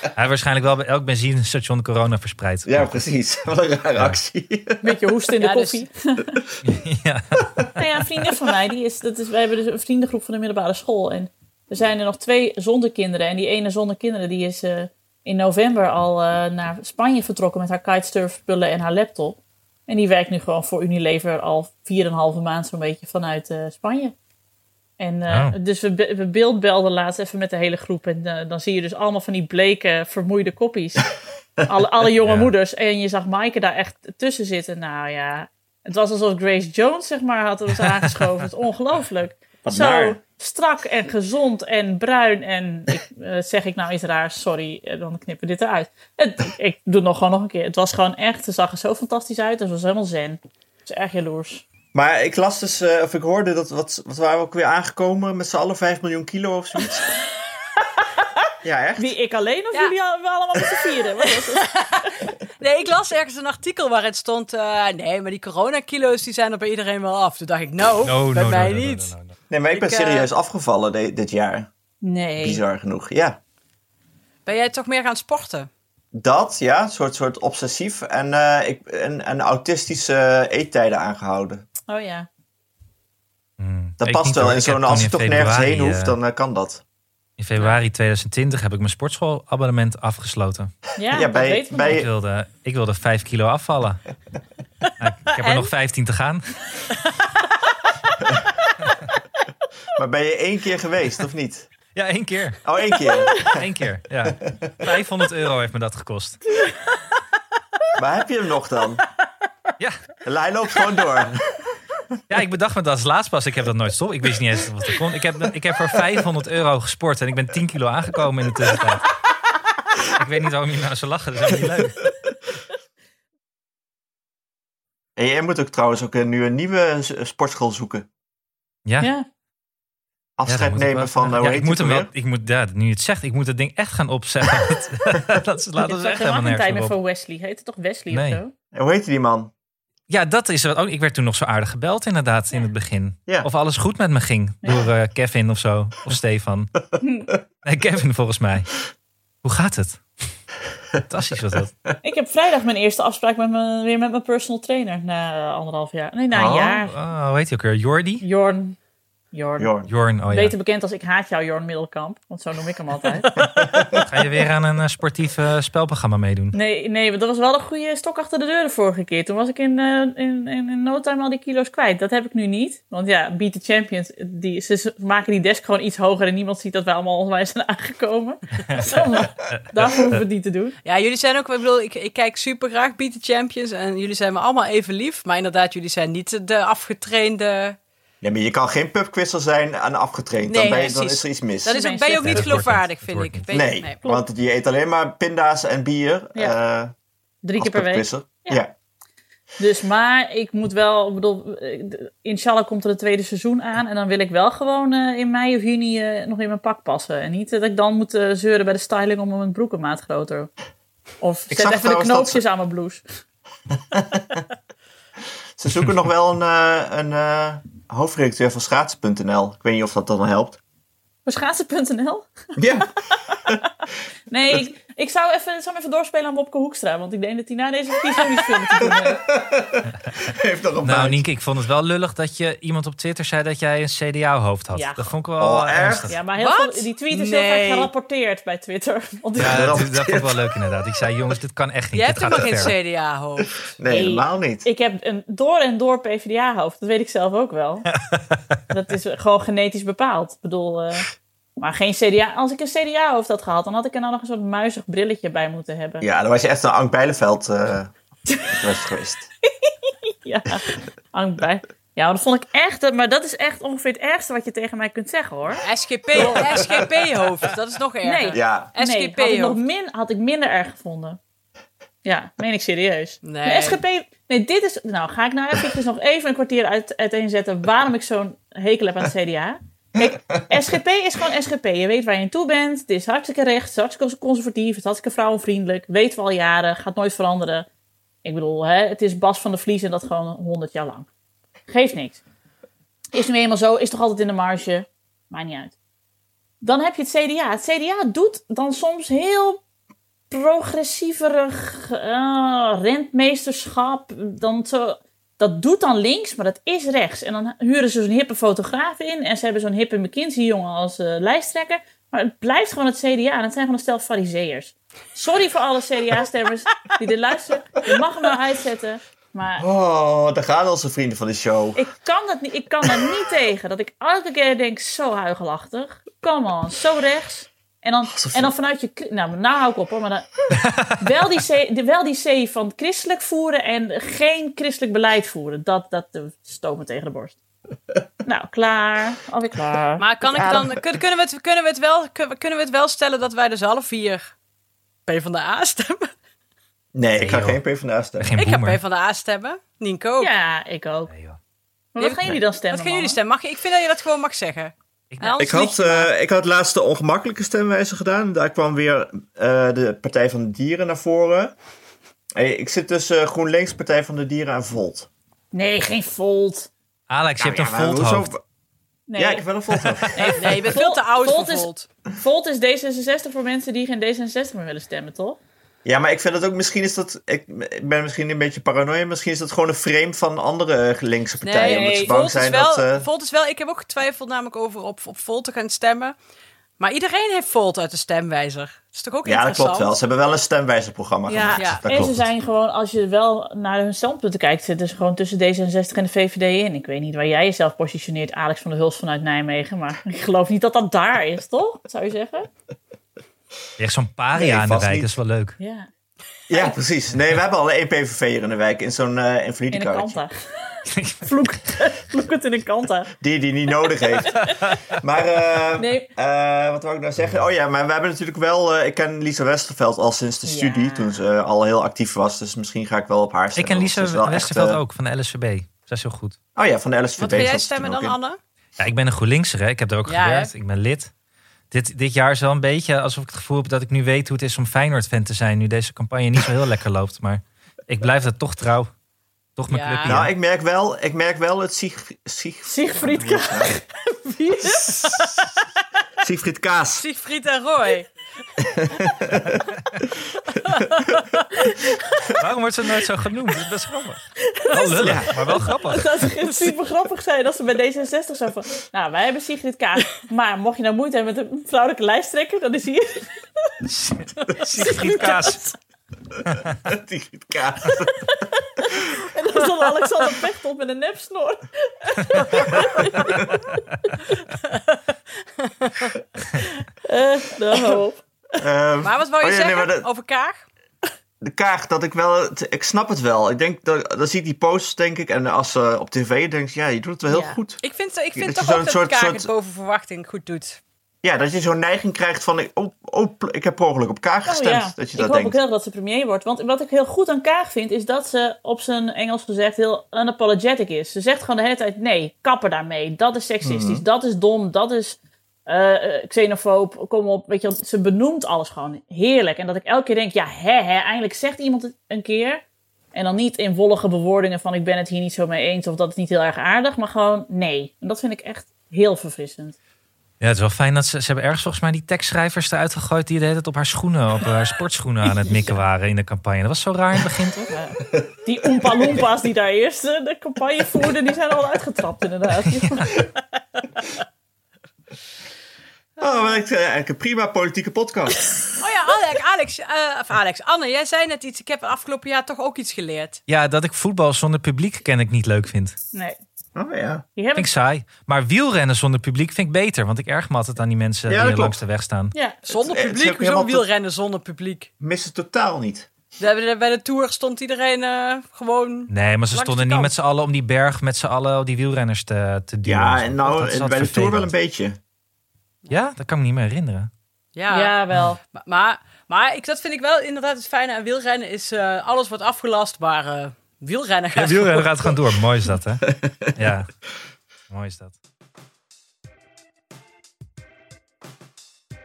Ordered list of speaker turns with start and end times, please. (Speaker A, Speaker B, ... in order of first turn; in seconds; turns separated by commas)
Speaker A: 0.1-3.0, Speaker B: 2.6-4.9, Speaker C: 4.8-6.4, Speaker D: 5.4-5.8, Speaker A: 6.6-7.6, Speaker C: 7.8-24.1, Speaker C: 25.0-31.1, Speaker A: 25.3-25.6, Speaker C: 31.6-51.6, Speaker A: 32.2-32.5, Speaker B: 39.6-40.2, Speaker B: 51.9-57.1, Speaker B: 58.6-59.1, Speaker C: 59.0-62.3, Speaker D: 61.2-69.1, Speaker A: 68.0-69.3, Speaker B: 69.5-71.7, Speaker D: 69.7-70.3, Speaker C: 72.0-72.6, Speaker B: 72.4-73.4, Speaker D: 74.5-75.7, Speaker B: 76.1-81.6, Speaker C: 81.9-82.3, Speaker A: 83.6-86.2, Speaker B: 84.0-86.8, Speaker A: 87.4-90.7, Speaker C: 91.0-92.0, Speaker B: 91.1-92.1, Speaker A: 91.8-94.0, Speaker A: 95.0-96.4, Speaker D: 95.4-95.7, Speaker B: 99.9-101.7, Speaker A: 101.9-102.6, Speaker B: 102.6-103.6, Speaker A: 103.5-106.4, Speaker B: 104.4-104.7, Speaker B: 108.0-109.0, Speaker B: 110.2-111.4, Speaker A: 112.3-119.1, Speaker A: 120.1-122.0, Speaker B: 125.2-128.1, Speaker A: 128.8-129.1, Speaker C: 129.0-129.2, Speaker B: 130.4-132.1, Speaker A: 130.5-136.9, Speaker C: 135.8-138.5, Speaker A: 138.1-138.4, Speaker B: 138.7-139.5, Speaker A: 140.1-146.7, Speaker C: 147.0-147.3, Speaker A: 147.6-148.7, Speaker A: 149.4-150.3, Speaker A: 151.1-151.7, Speaker C: 152.0-156.9, Speaker B: 156.3-156.8, Speaker A: 156.8-158.2, Speaker C: 158.2-158.8, Speaker C: 159.3-159.7, Speaker B: 159.6-159.9, Speaker A: 159.9-160.5, Speaker C: 160.3-163.4, Speaker B: 163.4-164.0, Speaker A: 163.9-166.6, Speaker C: 166.5-180.8, Speaker A: 179.5-180.2, Speaker D: 180.8-187.8, Speaker B: 188.2-191.7, Speaker D: 190.5-194.0, Speaker C: 191.7-192.6, Speaker A: 192.2-193.5, Speaker B: 193.5-196.9, Speaker C: 197.4-198.6, Speaker B: 197.6-198.7, Speaker C: 199.6-210.5, Speaker C: 211.2-213.0, Speaker B: 211.5-212.4, Speaker B: 213.9-214.4, Speaker B: 215.6-220.6, Speaker C: 221.2-222.3, Speaker B: 222.6-222.9, Speaker C: 223.2-223.6, Speaker C: 224.3-229.2, Speaker B: 228.7-231.2, Speaker A: 230.8-236.2, Speaker C: 234.7-235.1, Speaker B: 235.4-236.2, Speaker C: 236.1-239.8, Speaker D: 236.4-237.9, Speaker B: 239.4-240.5, Speaker A: 239.4-242.7, Speaker D: 241.9-243.7, Speaker B: 243.8-244.7, Speaker C: 243.9-247.9, Speaker A: 248.1-248.6, Speaker C: 248.7-256.0, Speaker B: 256.0-257.9, Speaker B: 258.4-259.3, Speaker C: 259.5-266.8, Speaker D: 265.6-269.6, Speaker C: 268.0-271.2, Speaker B: 268.3-268.7, Speaker C: 272.0-287.7, Speaker D: 273.2-273.8, Speaker C: 288.2-291.1, Speaker C: 291.7-292.2, Speaker C: 293.1-295.7, Speaker C: 296.6-299.6, Speaker C: 300.3-319.6, Speaker B: 319.6-321.8, Speaker C: 321.8-330.3, Speaker B: 328.1-328.5, Speaker A: 330.6-330.9, Speaker C: 330.8-337.3, Speaker C: 338.2-340.8, Speaker D: 340.0-344.3, Speaker D: 345.1-346.1, Speaker B: 346.9-348.3, Speaker A: 347.2-347.6, Speaker A: 348.2-348.8, Speaker D: 348.4-350.3, Speaker C: 350.2-351.1, Speaker A: 351.1-351.4, Speaker C: 351.9-353.2, Speaker D: 352.0-356.1, Speaker A: 355.1-355.4, Speaker B: 355.4-361.5, Speaker B: 362.4-365.1, Speaker C: 365.5-366.7, Speaker A: 367.1-368.3, Speaker B: 367.4-368.4, Speaker C: 369.1-369.4, Speaker B: 369.2-370.1, Speaker A: 369.8-370.3, Speaker C: 370.1-375.4, Speaker D: 370.2-371.9, Speaker B: 375.8-383.1, Speaker D: 381.4-386.1, Speaker C: 381.6-382.2, Speaker D: 386.8-389.9, Speaker B: 389.2-392.3, Speaker C: 391.3-402.5, Speaker D: 391.5-391.8, Speaker A: 403.8-405.6, Speaker B: 404.3-405.1, Speaker C: 405.6-405.9, Speaker B: 406.5-410.2, Speaker C: 409.7-413.1, Speaker A: 410.9-411.3, Speaker B: 413.2-424.8, Speaker C: 414.2-414.8, Speaker C: 415.8-416.1, Speaker C: 420.4-421.2, Speaker A: 423.5-426.4, Speaker B: 426.6-428.2, Speaker D: 427.2-428.4, Speaker A: 428.8-431.1, Speaker D: 430.1-430.5, Speaker A: 431.7-438.9, Speaker A: 439.6-440.3, Speaker D: 439.7-440.2, Speaker B: 440.0-443.8, Speaker C: 442.7-445.3, Speaker D: 444.6-445.4, Speaker B: 446.2-447.0, Speaker D: 446.9-448.1, Speaker B: 448.6-449.7, Speaker D: 450.6-451.4, Speaker C: 451.6-452.4, Speaker A: 452.4-456.3, Speaker C: 454.6-463.9, Speaker B: 454.9-455.6, Speaker D: 456.4-456.7, Speaker A: 463.9-465.6, Speaker C: 464.6-465.7, Speaker D: 464.8-465.5, Speaker A: 466.5-466.7, Speaker B: 466.8-469.1, Speaker C: 468.8-474.2, Speaker B: 473.3-473.6, Speaker D: 474.6-475.0, Speaker D: 475.6-476.1, Speaker C: 476.5-478.2, Speaker B: 478.6-480.1, Speaker D: 479.0-480.7, Speaker B: 481.4-487.8, Speaker C: 487.3-487.6, Speaker D: 487.8-490.8, Speaker B: 488.3-489.5, Speaker B: 491.2-495.6, Speaker C: 494.4-512.6, Speaker B: 503.6-504.0, Speaker C: 513.1-519.8, Speaker A: 520.4-527.7, Speaker C: 525.5-525.7, Speaker C: 527.7-533.3, Speaker A: 532.8-533.1, Speaker B: 536.2-538.5, Speaker D: 538.8-543.4, Speaker A: 543.5-546.0, Speaker B: 546.7-547.2, Speaker C: 547.4-547.7, Speaker A: 547.5-552.3, Speaker B: 551.3-551.8, Speaker C: 552.3-552.6, Speaker D: 552.6-554.9, Speaker B: 552.7-553.9, Speaker B: 555.0-556.1, Speaker D: 556.4-560.1, Speaker A: 559.1-564.5, Speaker B: 562.8-565.0, Speaker A: 565.9-567.1, Speaker D: 567.5-568.0, Speaker C: 567.7-568.4, Speaker D: 568.5-575.1, Speaker A: 574.3-576.9, Speaker B: 576.2-576.5, Speaker A: 577.7-578.1